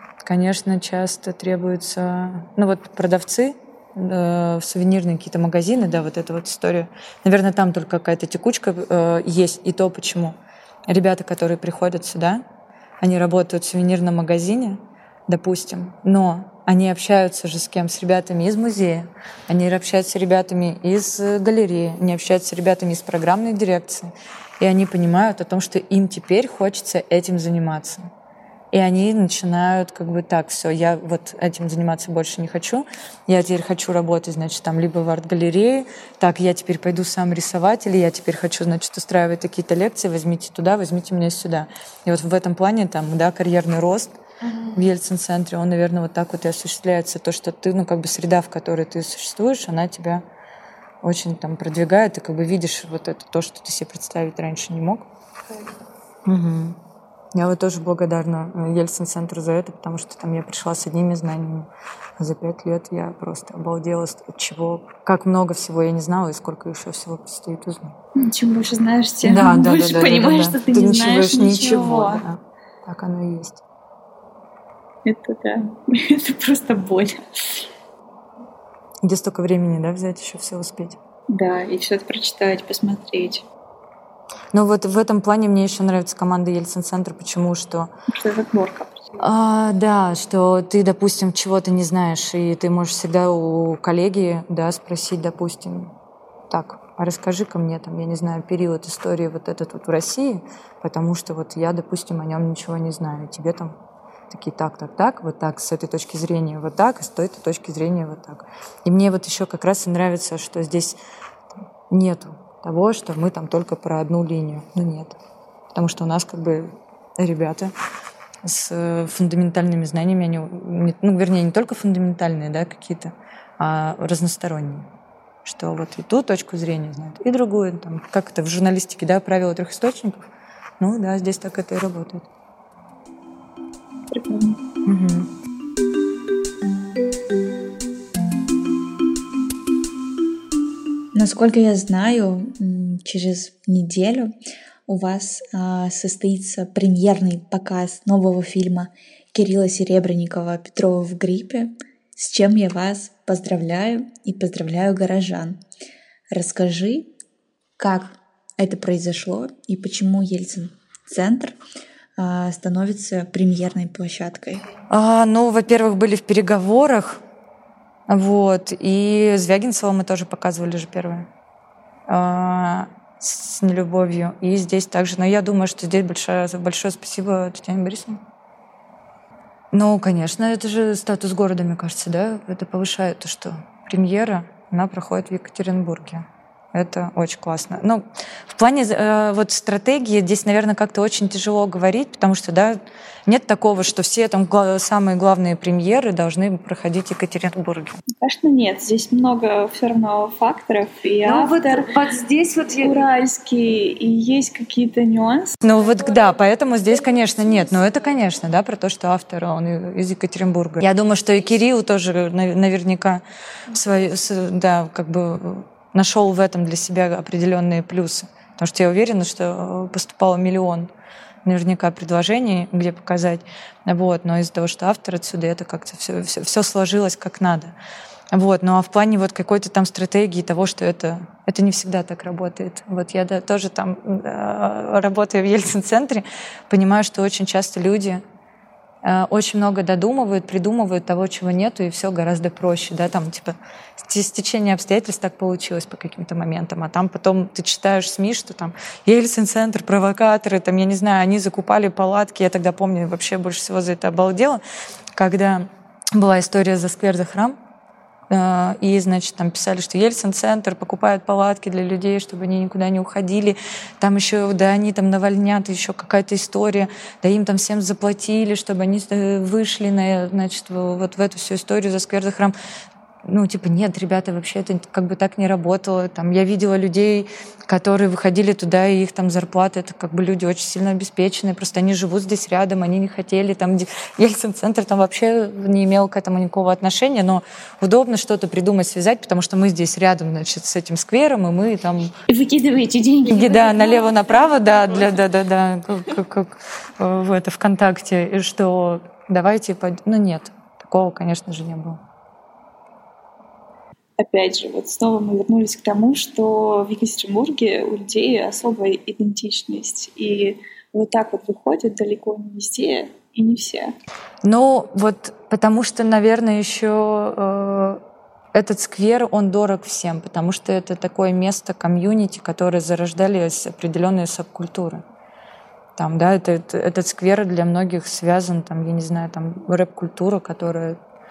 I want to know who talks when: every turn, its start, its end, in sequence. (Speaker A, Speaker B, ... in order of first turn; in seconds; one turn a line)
Speaker A: 0.2-10.4
Speaker A: 10.9-12.4
Speaker A: 13.0-28.1
Speaker A: 28.7-44.2
Speaker B: 44.4-44.8
Speaker A: 44.7-50.2
Speaker A: 51.0-55.1
Speaker A: 56.3-56.8
Speaker A: 57.3-68.0
Speaker B: 68.2-72.2
Speaker A: 69.2-73.6
Speaker B: 75.0-77.7
Speaker A: 79.0-81.0
Speaker B: 81.3-83.4
Speaker A: 84.5-87.9
Speaker B: 88.1-89.0
Speaker A: 89.2-95.9
Speaker A: 96.5-103.8
Speaker A: 104.3-111.0
Speaker A: 111.9-115.2
Speaker A: 115.7-117.7
Speaker A: 118.4-124.9
Speaker A: 125.5-130.2
Speaker A: 130.8-132.3
Speaker B: 134.1-134.6
Speaker A: 134.8-135.3
Speaker C: 141.1-144.4
Speaker C: 144.9-155.6
Speaker C: 156.3-157.1
Speaker C: 157.8-161.6
Speaker C: 162.2-164.7
Speaker A: 164.9-167.2
Speaker A: 168.1-171.3
Speaker A: 172.1-178.2
Speaker A: 179.7-198.0
Speaker B: 198.2-202.0
Speaker A: 201.2-203.0
Speaker B: 202.8-205.6
Speaker A: 205.6-220.9
Speaker A: 221.4-227.7
Speaker A: 228.3-238.2
Speaker A: 239.0-254.6
Speaker A: 255.2-257.6
Speaker A: 258.3-272.6
Speaker A: 273.2-292.1
Speaker B: 292.3-295.1
Speaker A: 293.3-302.0
Speaker B: 304.2-314.0
Speaker A: 314.4-318.0
Speaker A: 318.5-325.0
Speaker A: 326.0-331.0